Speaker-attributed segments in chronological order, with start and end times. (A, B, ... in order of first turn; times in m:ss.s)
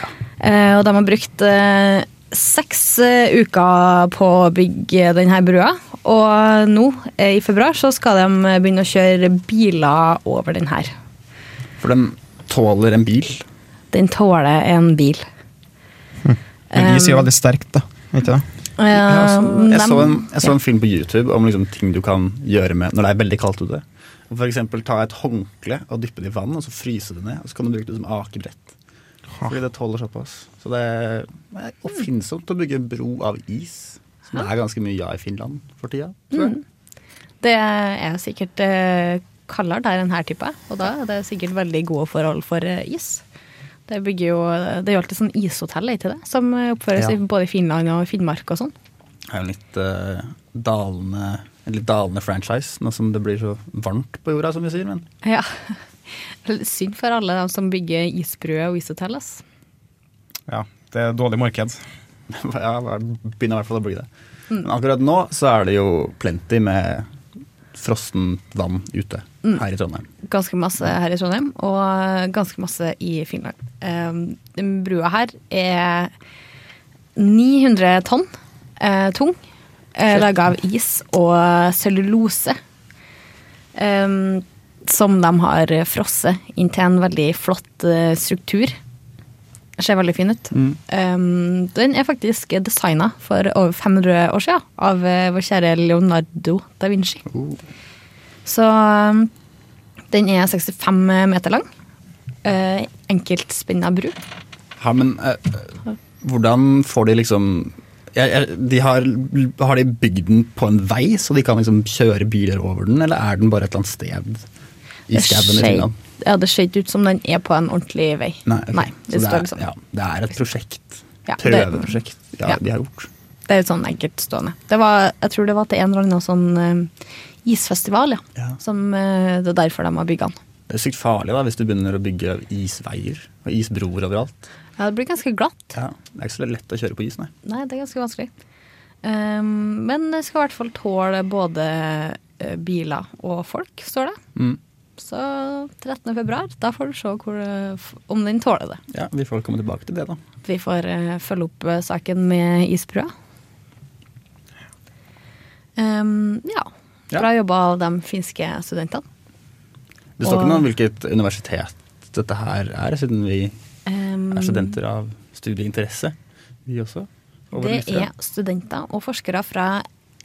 0:00.4-0:10.9 A
0:11.8-0:13.4 B
0:13.9-0:15.2 A
0:16.2-0:18.4 C
0:16.7-0:17.3 A
0:18.8-0:20.5 A
0:19.0-0:28.7 B
0:29.4-0:36.5 B
0:36.3-0:36.6 A
0:37.4-0:43.2 A
0:43.9-0:48.7 A
0:49.3-0:55.0 B
0:55.2-0:55.5 A
0:56.4-0:59.4 A
1:00.5-1:01.8 C
1:02.3-1:04.1 B
1:04.6-1:07.1 B
1:07.7-1:10.1 B
1:10.2-1:16.1 A
1:17.2-1:19.4 A
1:20.0-1:22.6 A
1:23.8-1:28.8 A
1:29.8-1:37.2 A
1:37.3-1:37.6 B
1:38.4-1:39.3 A
1:40.1-1:41.7 A
1:42.4-1:44.2 A
1:44.8-1:45.7 B
1:46.2-1:54.4 B
1:55.1-1:55.9 B
1:55.1-1:59.6 A
1:58.4-2:03.1 B
2:01.3-2:02.6 A
2:03.5-2:06.9 A
2:07.4-2:10.3 A
2:10.7-2:14.4 B
2:14.8-2:15.8 A
2:15.7-2:17.3 B
2:17.4-2:18.3 A
2:19.0-2:24.2 A
2:25.0-2:28.8 A
2:28.9-2:30.2 B
2:30.4-2:33.1 A
2:35.8-2:39.0 A
2:40.2-2:43.5 B
2:40.2-2:40.6 A
2:43.9-2:44.8 A
2:44.3-2:46.1 B
2:46.7-2:48.1 B
2:47.5-2:49.8 A